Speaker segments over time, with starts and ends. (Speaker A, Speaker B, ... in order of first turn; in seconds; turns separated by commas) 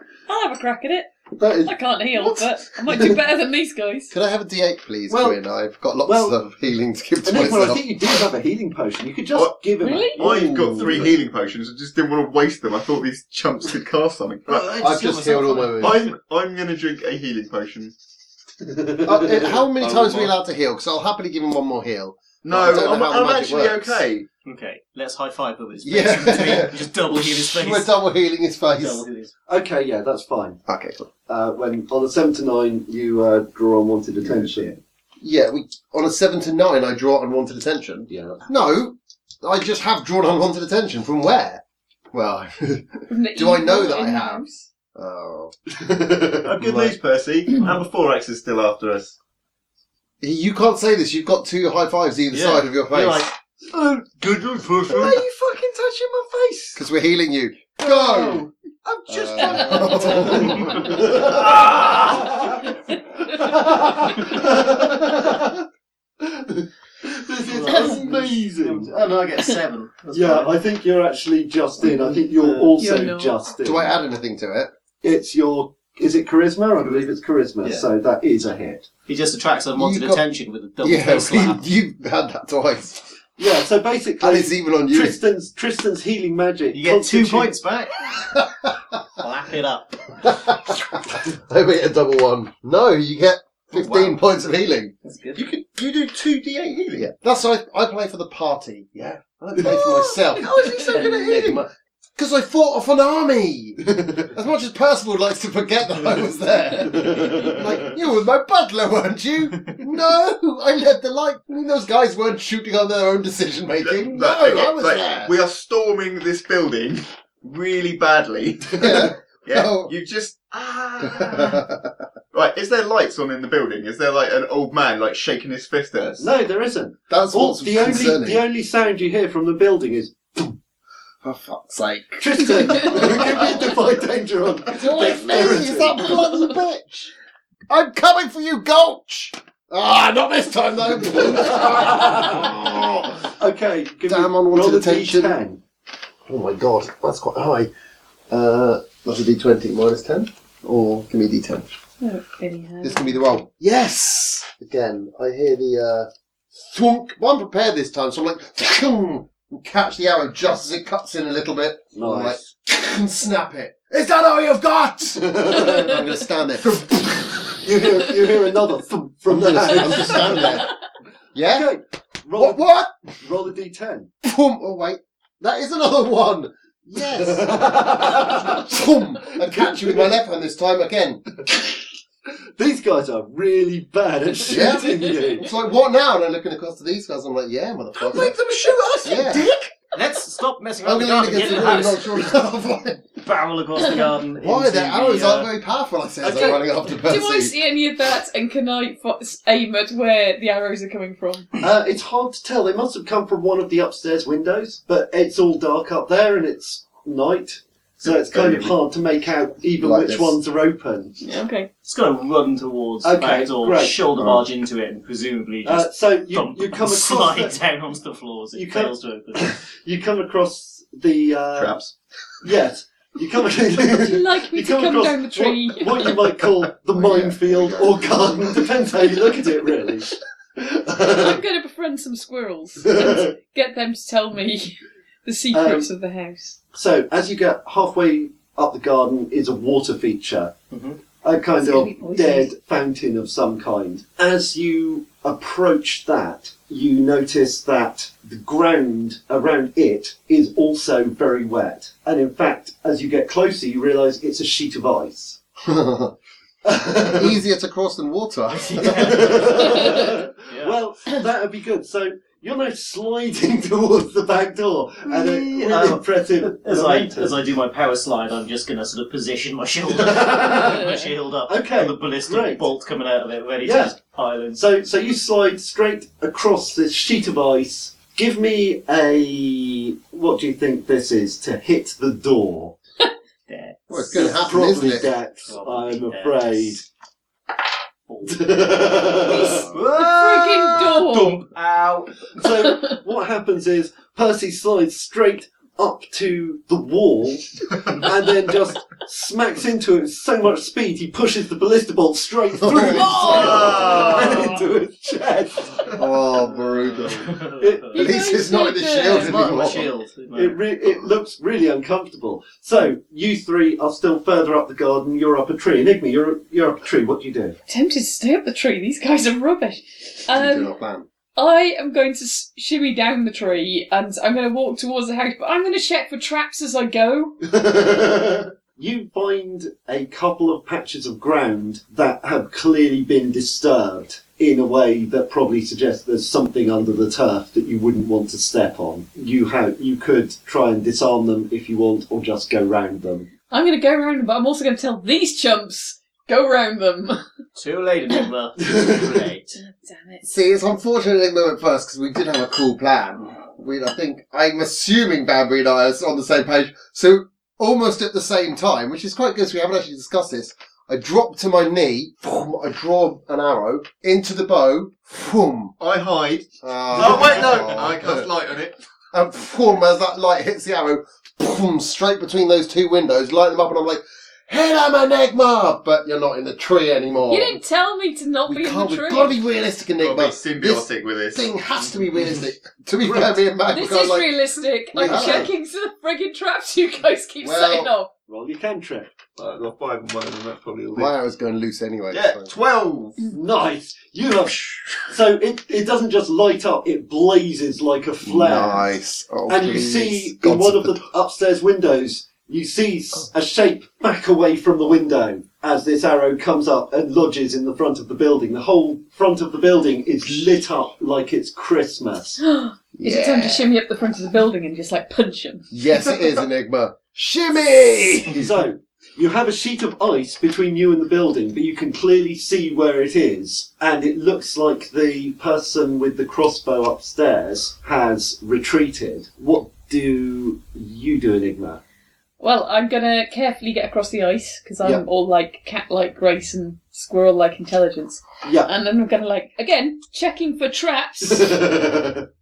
Speaker A: 0.3-1.1, Speaker B: 1.4-1.7, Speaker A: 1.6-4.1, Speaker C: 4.1-8.2, Speaker B: 5.1-5.4, Speaker B: 6.0-6.4, Speaker B: 7.2-10.3, Speaker A: 9.8-10.2, Speaker D: 10.2-14.7, Speaker C: 10.2-11.2, Speaker E: 14.5-16.0, Speaker C: 14.7-16.1, Speaker D: 15.8-17.9, Speaker B: 18.6-19.9, Speaker C: 19.0-24.1, Speaker D: 22.4-24.3, Speaker E: 24.4-27.9, Speaker C: 25.8-29.1, Speaker E: 28.7-29.3, Speaker B: 29.5-30.6, Speaker C: 30.7-31.1, Speaker B: 31.3-34.8, Speaker C: 35.2-41.6, Speaker B: 38.1-38.5, Speaker C: 42.1-45.5, Speaker A: 43.1-44.6, Speaker B: 45.8-46.5, Speaker D: 46.4-49.2, Speaker C: 46.6-47.0, Speaker C: 50.2-53.3, Speaker E: 52.3-55.2, Speaker B: 54.9-56.8, Speaker C: 56.8-58.5, Speaker B: 57.8-62.7, Speaker C: 59.1-61.3, Speaker E: 59.4-62.4, Speaker B: 63.2-65.6, Speaker B: 66.2-68.9, Speaker E: 67.5-70.6, Speaker B: 70.1-74.0, Speaker A: 71.8-72.1, Speaker E: 72.2-72.7, Speaker A: 72.8-73.4, Speaker C: 73.6-74.7, Speaker B: 75.0-78.9, Speaker E: 79.1-81.7, Speaker C: 79.8-80.2, Speaker C: 80.8-83.1, Speaker B: 83.4-87.6, Speaker C: 84.2-85.2, Speaker E: 86.7-88.2, Speaker C: 88.2-89.0, Speaker E: 89.2-90.2, Speaker C: 90.2-94.9, Speaker E: 93.7-94.2, Speaker E: 95.0-95.5, Speaker D: 95.4-97.1, Speaker C: 97.0-115.4, Speaker D: 100.6-101.0, Speaker E: 101.0-101.5, Speaker B: 106.8-107.6, Speaker D: 113.8-121.6, Speaker C: 118.8-119.9, Speaker C: 121.0-121.9, Speaker D: 122.3-126.3, Speaker B: 126.2-130.6, Speaker C: 127.1-128.4, Speaker C: 131.2-133.8, Speaker B: 132.2-136.2, Speaker C: 134.7-137.1, Speaker C: 137.7-143.3, Speaker B: 141.5-142.5, Speaker B: 143.4-145.6, Speaker C: 144.1-145.4, Speaker C: 146.3-147.7, Speaker C: 148.3-151.7, Speaker A: 152.0-153.2, Speaker C: 152.8-167.4, Speaker B: 161.9-162.5, Speaker B: 167.6-170.6, Speaker C: 169.3-170.7, Speaker C: 171.3-171.7, Speaker B: 171.5-172.7, Speaker C: 172.4-172.9, Speaker B: 173.2-174.1, Speaker C: 174.2-181.4, Speaker B: 177.1-178.6, Speaker B: 179.3-180.2, Speaker B: 182.6-185.5, Speaker C: 184.5-188.3, Speaker E: 188.2-192.3, Speaker B: 188.3-189.1, Speaker C: 189.0-189.5, Speaker C: 190.8-193.1, Speaker E: 193.2-195.5, Speaker C: 194.4-197.6, Speaker B: 196.2-196.6, Speaker A: 196.9-201.5, Speaker B: 201.6-211.2, Speaker D: 208.3-208.7, Speaker C: 209.8-210.4, Speaker A: 211.2-211.7, Speaker E: 211.8-219.6, Speaker B: 213.0-214.1, Speaker C: 214.2-214.4, Speaker B: 215.6-217.6, Speaker B: 218.5-221.8, Speaker D: 221.6-221.9, Speaker B: 222.4-231.4, Speaker A: 223.9-226.2, Speaker C: 226.9-228.6, Speaker A: 231.1-236.6, Speaker B: 232.8-233.3, Speaker B: 235.5-235.9, Speaker B: 236.7-240.5, Speaker E: 240.7-241.0, Speaker B: 241.2-255.4, Speaker A: 241.6-242.5, Speaker C: 255.7-256.1, Speaker B: 256.6-257.4, Speaker C: 257.1-259.5, Speaker E: 258.5-260.8, Speaker B: 258.9-267.4, Speaker E: 265.1-274.6, Speaker B: 269.9-270.9, Speaker A: 270.6-271.0, Speaker B: 271.5-272.7, Speaker B: 273.6-273.9, Speaker B: 274.6-282.8, Speaker E: 283.5-284.3, Speaker C: 283.9-285.1, Speaker B: 284.1-286.8, Speaker E: 285.5-286.8, Speaker E: 288.1-292.3, Speaker B: 288.2-289.7, Speaker A: 289.3-291.4, Speaker B: 292.4-306.0, Speaker C: 302.6-304.0, Speaker A: 303.0-304.2, Speaker E: 303.3-304.5, Speaker D: 303.4-304.4, Speaker C: 306.0-307.3, Speaker E: 306.3-307.9, Speaker B: 307.6-308.0, Speaker A: 307.9-309.4, Speaker C: 308.0-309.9, Speaker E: 309.0-310.6, Speaker B: 310.3-317.6, Speaker A: 317.7-320.7, Speaker C: 320.3-321.1, Speaker A: 321.4-327.4, Speaker B: 327.4-343.3, Speaker A: 343.5-347.2, Speaker E: 347.6-349.6, Speaker B: 348.7-349.0, Speaker A: 349.6-350.3, Speaker C: 350.2-365.7, Speaker D: 365.8-368.8, Speaker C: 366.6-368.3, Speaker C: 369.1-377.6, Speaker A: 377.3-379.4, Speaker C: 378.5-384.3, Speaker D: 380.0-381.5, Speaker B: 383.0-383.4, Speaker A: 383.7-388.1, Speaker C: 384.9-385.5, Speaker B: 385.0-385.5, Speaker C: 387.4-387.9, Speaker B: 388.3-389.2, Speaker D: 389.4-391.1, Speaker C: 390.9-392.5, Speaker D: 392.1-393.2, Speaker B: 393.3-398.9, Speaker C: 398.2-401.0, Speaker B: 399.5-412.4, Speaker A: 412.4-415.7, Speaker C: 413.0-413.7, Speaker C: 415.7-418.5, Speaker B: 418.3-431.8, Speaker A: 432.4-441.8, Speaker B: 438.4-438.7, Speaker B: 441.2-442.2